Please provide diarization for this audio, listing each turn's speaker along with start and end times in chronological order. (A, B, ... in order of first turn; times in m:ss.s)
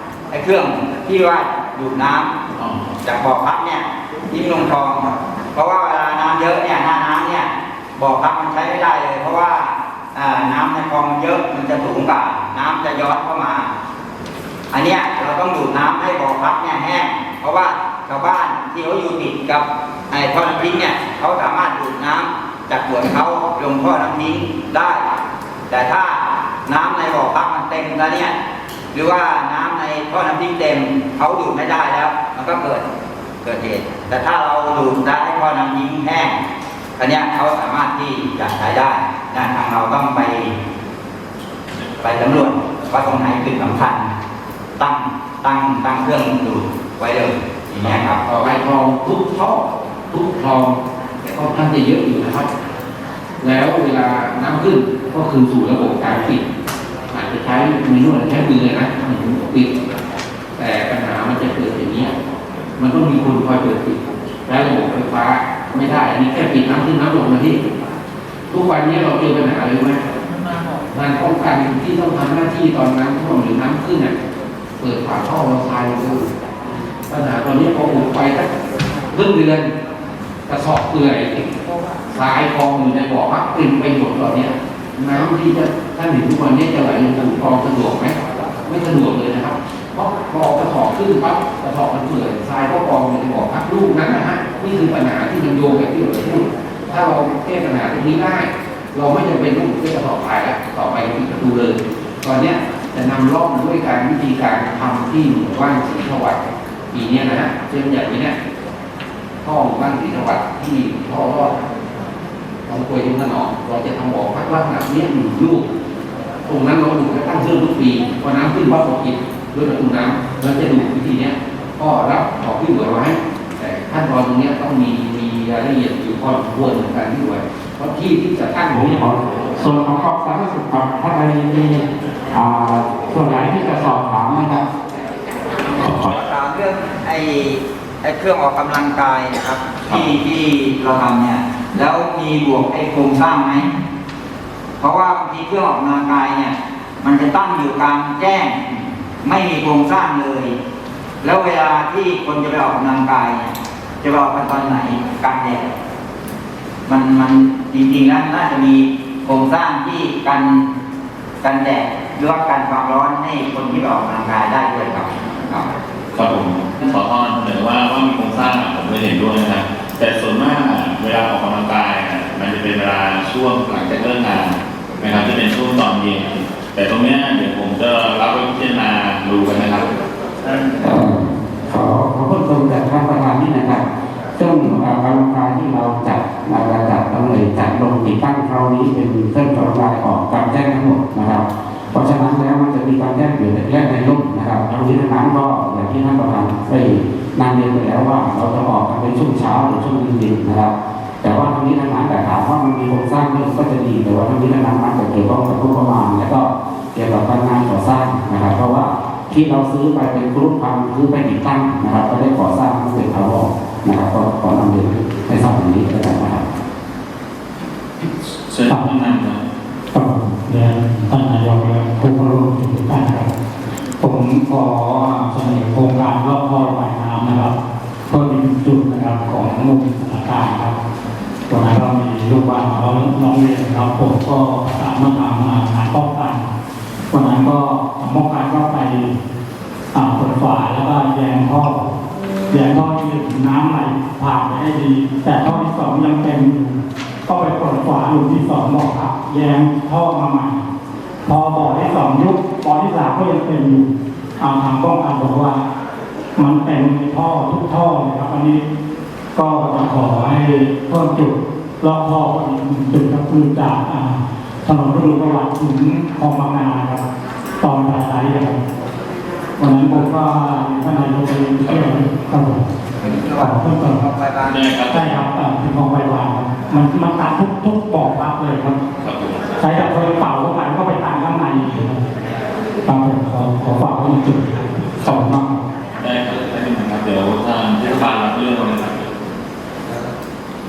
0:00.3-0:02.3 A
0:02.6-0:03.0 B
0:03.0-0:13.7 A
0:14.7-0:25.1 A
0:25.7-0:28.4 A
0:28.9-0:32.8 A
0:33.4-0:36.4 A
0:37.0-0:40.5 A
0:42.0-0:44.1 A
0:44.8-0:48.2 A
0:47.7-0:52.5 C
0:53.4-0:56.4 C
0:57.1-0:59.8 C
1:00.6-1:02.1 C
1:02.8-1:07.6 C
1:08.5-1:10.0 C
1:10.9-1:14.1 C
1:14.8-1:16.3 C
1:17.1-1:18.5 C
1:19.1-1:19.7 C
1:20.5-1:21.4 C
1:22.1-1:46.4 C
1:46.9-1:48.4 C
1:49.4-1:51.6 C
1:52.7-1:55.7 C
1:56.5-2:09.0 C
2:08.7-2:14.7 D
2:16.0-2:23.7 A
2:24.8-2:30.6 A
2:31.2-2:35.7 A
2:36.9-2:40.6 A
2:41.4-2:45.7 A
2:46.2-2:59.9 B
3:00.8-3:03.8 D
3:04.4-3:36.4 D
3:38.0-3:39.4 B
3:39.9-3:43.3 E
3:44.0-3:47.6 E
3:48.1-3:50.8 E
3:51.5-3:56.5 E
3:57.1-3:59.1 E
3:59.9-4:01.9 E
4:02.5-4:10.6 E
4:11.2-4:13.9 E
4:14.4-4:15.6 E
4:16.4-4:18.6 E
4:19.4-4:27.0 E
4:27.6-4:28.6 E
4:29.6-4:32.7 E
4:31.6-4:32.0 B
4:33.4-4:34.1 E
4:33.4-4:34.0 A
4:34.4-4:35.3 B
4:34.9-4:38.8 E
4:39.0-4:39.8 B
4:39.6-4:42.0 E
4:42.8-4:45.6 E
4:46.0-4:49.0 B